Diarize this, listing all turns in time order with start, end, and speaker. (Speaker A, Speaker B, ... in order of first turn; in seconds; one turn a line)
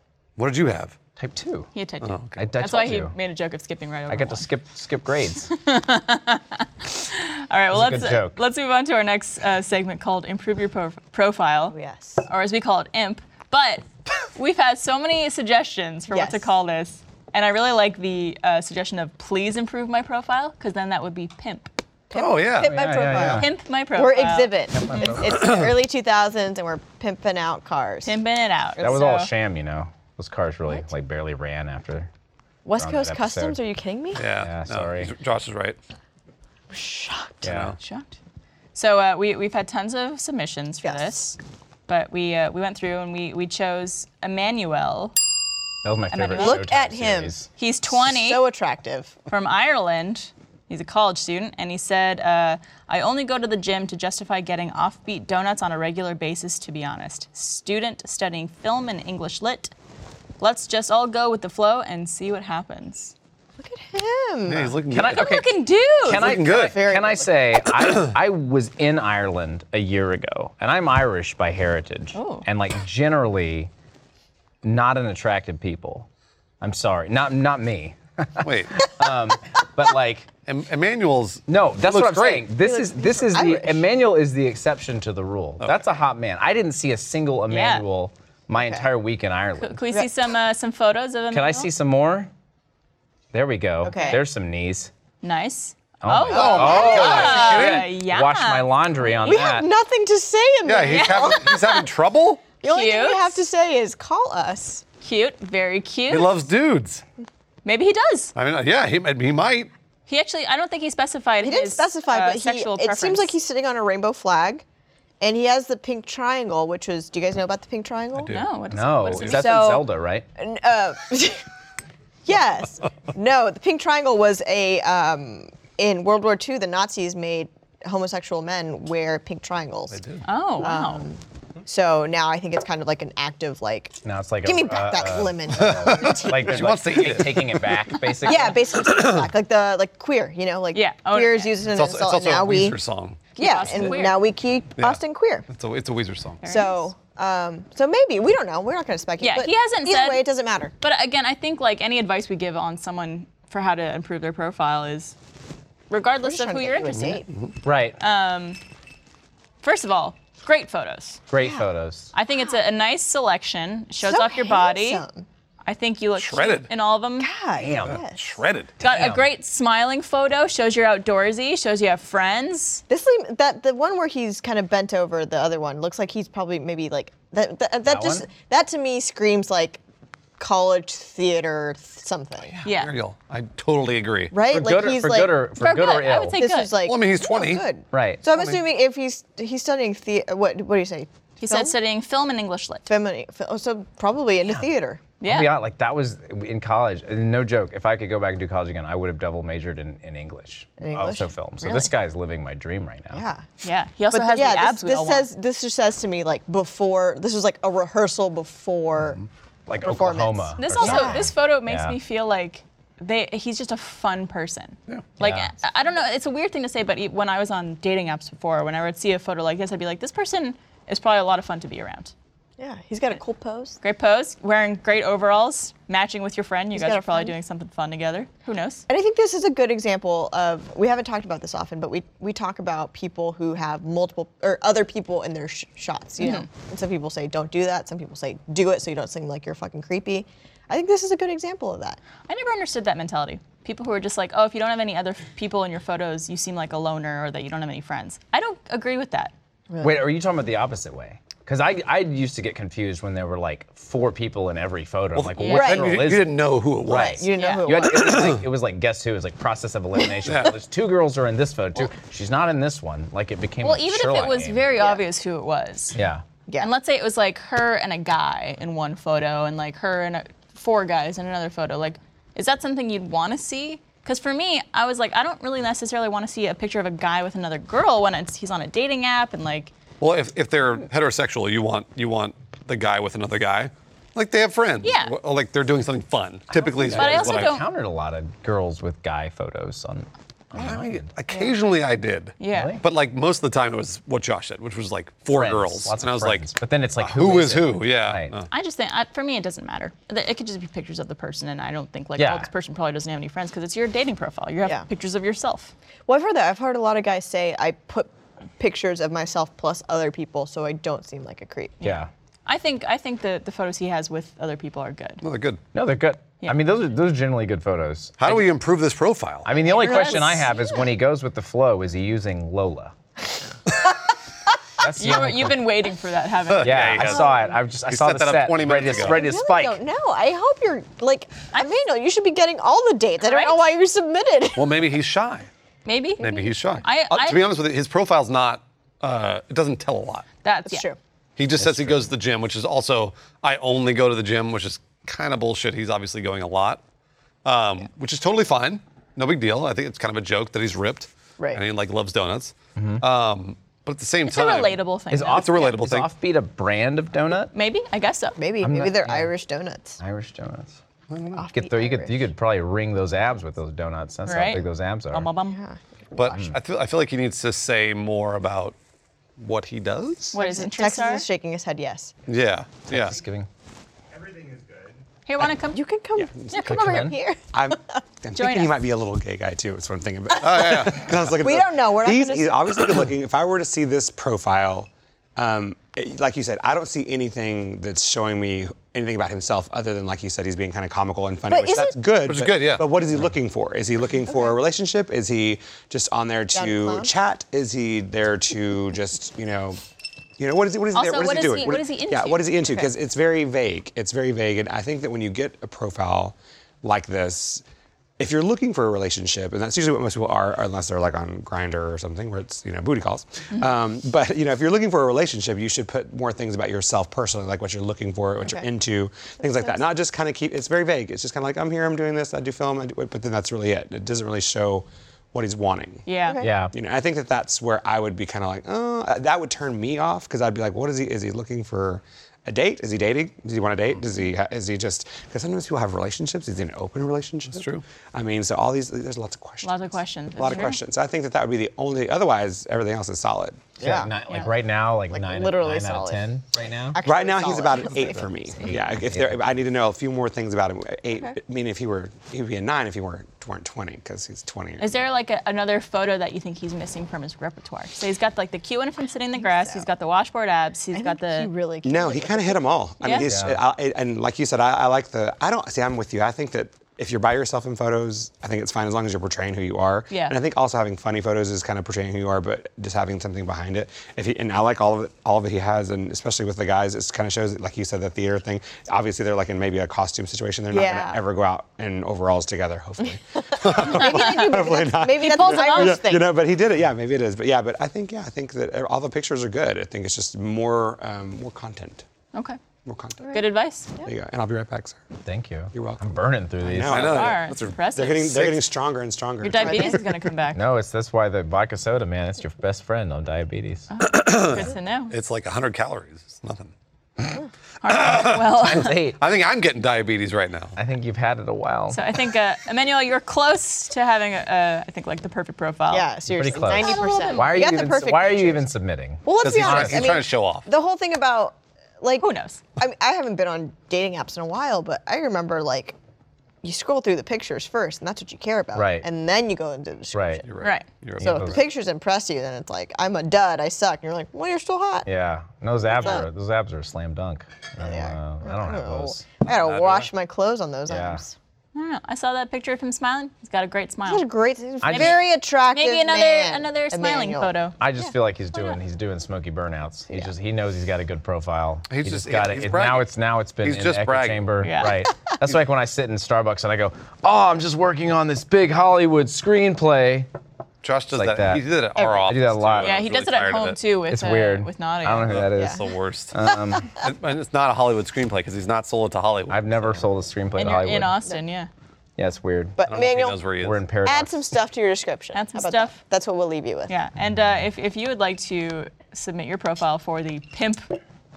Speaker A: 0.4-1.0
Speaker B: 1.2-1.7
Speaker C: 1.7-4.5
Speaker A: 2.0-2.4
Speaker B: 2.4-3.1
Speaker B: 4.1-5.5
Speaker C: 5.5-21.7
Speaker B: 7.7-8.4
Speaker D: 11.7-12.2
Speaker D: 16.1-16.5
Speaker D: 22.1-28.2
Speaker A: 22.1-23.4
Speaker B: 22.6-23.5
Speaker C: 23.4-25.3
Speaker B: 24.7-25.6
Speaker A: 25.4-25.7
Speaker C: 28.0-29.3
Speaker D: 28.8-29.0
Speaker B: 28.8-32.1
Speaker D: 32.6-34.2
Speaker B: 32.8-33.6
Speaker A: 34.2-35.8
Speaker B: 34.3-35.1
Speaker D: 36.7-37.5
Speaker B: 37.4-37.8
Speaker A: 37.4-37.8
Speaker C: 37.8-38.2
Speaker C: 38.8-45.1
Speaker D: 40.8-41.3
Speaker B: 45.8-47.5
Speaker C: 46.1-46.6
Speaker D: 46.4-47.3
Speaker C: 47.6-48.4
Speaker D: 47.9-49.2
Speaker C: 49.3-59.7
Speaker C: 60.4-63.1
Speaker D: 63.6-64.8
Speaker A: 64.5-65.4
Speaker B: 64.9-73.7
Speaker C: 65.1-66.3
Speaker A: 66.1-66.8
Speaker D: 66.2-67.4
Speaker C: 72.1-72.5
Speaker B: 74.6-76.1
Speaker B: 76.6-80.3
Speaker A: 78.4-78.9
Speaker A: 80.5-82.5
Speaker B: 81.5-89.8
Speaker D: 82.6-83.8
Speaker C: 87.5-87.8
Speaker D: 88.5-88.9
Speaker C: 89.6-91.7
Speaker B: 91.3-92.3
Speaker B: 93.3-94.9
Speaker D: 93.8-94.2
Speaker C: 93.9-94.2
Speaker C: 95.2-99.5
Speaker B: 96.0-99.7
Speaker A: 96.3-97.9
Speaker D: 96.3-97.7
Speaker D: 99.2-101.6
Speaker A: 100.7-102.4
Speaker C: 100.9-101.8
Speaker D: 102.6-104.8
Speaker C: 102.7-103.4
Speaker C: 105.0-106.4
Speaker A: 106.1-107.0
Speaker C: 107.7-108.3
Speaker A: 108.3-109.7
Speaker C: 110.1-113.3
Speaker D: 111.4-114.6
Speaker D: 115.2-118.4
Speaker A: 118.2-118.5
Speaker C: 118.3-119.8
Speaker B: 118.7-120.3
Speaker D: 119.3-121.4
Speaker D: 122.3-130.0
Speaker A: 129.9-130.2
Speaker C: 130.2-131.1
Speaker D: 130.6-136.8
Speaker B: 134.0-138.8
Speaker A: 135.6-138.1
Speaker D: 138.2-142.8
Speaker A: 138.7-139.3
Speaker C: 140.7-141.6
Speaker A: 141.7-143.3
Speaker C: 143.4-144.2
Speaker D: 143.4-145.5
Speaker A: 144.8-146.4
Speaker C: 146.4-146.8
Speaker D: 146.4-150.7
Speaker C: 149.2-150.2
Speaker C: 150.8-155.2
Speaker C: 155.9-157.2
Speaker D: 156.2-157.3
Speaker A: 156.9-157.5
Speaker B: 157.6-158.0
Speaker C: 158.0-158.6
Speaker C: 159.6-161.2
Speaker B: 161.3-162.1
Speaker D: 161.4-161.7
Speaker C: 162.1-165.0
Speaker D: 164.0-165.3
Speaker C: 165.6-167.3
Speaker A: 166.2-166.7
Speaker D: 167.2-168.3
Speaker B: 167.6-168.0
Speaker A: 167.8-168.7
Speaker B: 168.8-169.3
Speaker C: 168.8-172.8
Speaker D: 172.9-179.8
Speaker B: 177.9-178.3
Speaker D: 180.4-182.5
Speaker A: 182.5-184.3
Speaker C: 182.6-182.9
Speaker D: 184.3-185.4
Speaker B: 184.5-186.4
Speaker C: 185.6-186.8
Speaker D: 186.3-191.8
Speaker A: 186.8-187.7
Speaker B: 187.9-188.2
Speaker C: 191.4-192.9
Speaker D: 192.9-195.0
Speaker C: 195.2-195.6
Speaker B: 195.2-203.2
Speaker D: 200.8-201.8
Speaker D: 203.1-203.5
Speaker C: 203.6-205.3
Speaker D: 204.1-209.2
Speaker B: 209.7-212.0
Speaker D: 209.8-211.3
Speaker C: 210.6-222.1
Speaker B: 215.2-215.6
Speaker D: 222.6-223.8
Speaker C: 223.8-228.9
Speaker D: 226.7-227.4
Speaker D: 228.9-242.0
Speaker C: 236.2-236.5
Speaker C: 242.3-249.3
Speaker D: 249.7-250.0
Speaker B: 249.8-264.7
Speaker A: 255.2-257.2
Speaker C: 255.4-255.8
Speaker D: 255.5-256.0
Speaker D: 256.9-258.3
Speaker C: 257.4-257.8
Speaker A: 257.9-258.4
Speaker A: 260.2-260.6
Speaker C: 263.6-266.0
Speaker B: 265.9-266.2
Speaker C: 266.6-279.7
Speaker A: 280.0-287.6
Speaker C: 284.8-285.1
Speaker B: 286.5-291.1
Speaker C: 286.9-287.6
Speaker A: 290.6-296.4
Speaker C: 292.4-292.8
Speaker B: 292.5-292.8
Speaker B: 295.3-298.3
Speaker A: 297.0-298.5
Speaker C: 298.5-305.7
Speaker B: 302.2-302.5
Speaker D: 306.1-311.8
Speaker C: 311.8-315.2
Speaker B: 311.8-312.1
Speaker A: 315.2-315.6
Speaker B: 315.7-318.5
Speaker A: 318.2-319.5
Speaker B: 319.4-322.9
Speaker D: 319.5-320.7
Speaker C: 319.7-320.5
Speaker B: 324.8-325.7
Speaker C: 324.9-327.3
Speaker A: 326.5-329.2
Speaker B: 326.6-329.8
Speaker D: 327.1-327.5
Speaker D: 328.9-334.8
Speaker C: 333.2-333.8
Speaker A: 334.6-335.5
Speaker C: 335.9-337.4
Speaker A: 336.2-340.2
Speaker C: 340.4-340.9
Speaker D: 340.7-341.0
Speaker A: 341.4-346.8
Speaker B: 341.6-342.1
Speaker A: 347.4-356.1
Speaker B: 352.8-353.0
Speaker C: 354.2-355.7
Speaker B: 355.1-357.5
Speaker C: 357.5-358.4
Speaker D: 358.4-360.0
Speaker B: 358.6-359.3
Speaker B: 360.0-360.8
Speaker A: 361.1-361.4
Speaker D: 361.3-362.2
Speaker B: 361.5-365.3
Speaker C: 364.3-365.6
Speaker D: 365.5-365.8
Speaker A: 366.1-368.8
Speaker B: 366.3-366.6
Speaker A: 369.4-370.3
Speaker C: 370.3-371.3
Speaker D: 370.3-372.1
Speaker A: 372.3-373.2
Speaker B: 372.9-373.5
Speaker E: 374.1-375.0
Speaker C: 375.3-375.8
Speaker D: 375.7-378.0
Speaker E: 376.3-376.7
Speaker B: 376.6-377.2
Speaker E: 377.5-399.8
Speaker C: 378.4-378.9
Speaker A: 380.4-381.4
Speaker D: 381.4-382.7
Speaker D: 391.5-391.9
Speaker A: 392.3-392.9
Speaker D: 394.3-394.6
Speaker D: 396.5-397.1
Speaker E: 400.4-407.6
Speaker C: 400.9-402.5
Speaker E: 408.2-426.1
Speaker C: 426.1-426.4
Speaker D: 426.3-426.5
Speaker B: 426.4-426.7
Speaker E: 426.7-443.8
Speaker A: 437.5-437.8
Speaker C: 439.6-440.8
Speaker D: 443.8-444.5
Speaker B: 443.8-447.0
Speaker D: 445.1-446.2
Speaker D: 446.9-448.3
Speaker E: 447.0-455.0
Speaker B: 448.6-449.4
Speaker C: 454.8-461.5
Speaker D: 459.4-459.9
Speaker D: 460.9-462.7
Speaker E: 461.9-492.0
Speaker C: 463.0-463.3
Speaker B: 463.2-463.6
Speaker C: 470.1-470.4
Speaker D: 480.7-481.2
Speaker D: 483.4-486.4
Speaker C: 483.8-486.1
Speaker E: 492.9-493.4
Speaker C: 493.2-493.9
Speaker E: 494.0-495.0
Speaker B: 495.2-497.2
Speaker E: 495.7-496.1
Speaker E: 496.6-500.0
Speaker A: 496.7-497.8
Speaker C: 497.0-498.6
Speaker C: 499.4-500.6
Speaker D: 499.6-500.0
Speaker B: 500.5-503.9
Speaker C: 503.9-505.1
Speaker A: 504.0-506.7
Speaker C: 507.8-509.0
Speaker A: 507.9-510.8
Speaker B: 508.6-509.2
Speaker B: 510.8-512.0
Speaker C: 511.9-517.6
Speaker D: 515.9-518.6
Speaker B: 516.3-520.2
Speaker D: 519.2-526.0
Speaker A: 519.4-520.7
Speaker C: 522.2-522.6
Speaker D: 526.6-530.5
Speaker B: 528.8-529.1
Speaker B: 530.1-530.4
Speaker A: 530.5-531.6
Speaker C: 530.6-530.9
Speaker B: 531.2-531.7
Speaker D: 531.2-535.1
Speaker B: 535.0-539.2
Speaker D: 535.9-536.3
Speaker D: 537.8-541.4
Speaker A: 539.5-540.1
Speaker B: 540.9-541.2
Speaker C: 541.8-544.3
Speaker D: 544.1-548.1
Speaker B: 544.8-545.2
Speaker C: 544.9-545.2
Speaker C: 545.7-547.8
Speaker B: 547.8-560.3
Speaker A: 551.9-553.1
Speaker A: 553.6-554.5
Speaker C: 554.6-555.0
Speaker A: 560.8-563.8
Speaker B: 561.1-561.6
Speaker D: 562.0-562.3
Speaker B: 562.2-563.0
Speaker C: 562.8-565.4
Speaker B: 564.1-565.8
Speaker A: 565.3-570.0
Speaker B: 566.3-567.0
Speaker B: 569.5-571.2
Speaker C: 570.6-571.7
Speaker B: 572.2-572.8
Speaker D: 572.8-573.4
Speaker A: 572.9-573.8
Speaker B: 573.6-574.3
Speaker D: 574.0-576.9
Speaker C: 575.3-576.0
Speaker C: 576.9-581.0
Speaker B: 577.2-577.6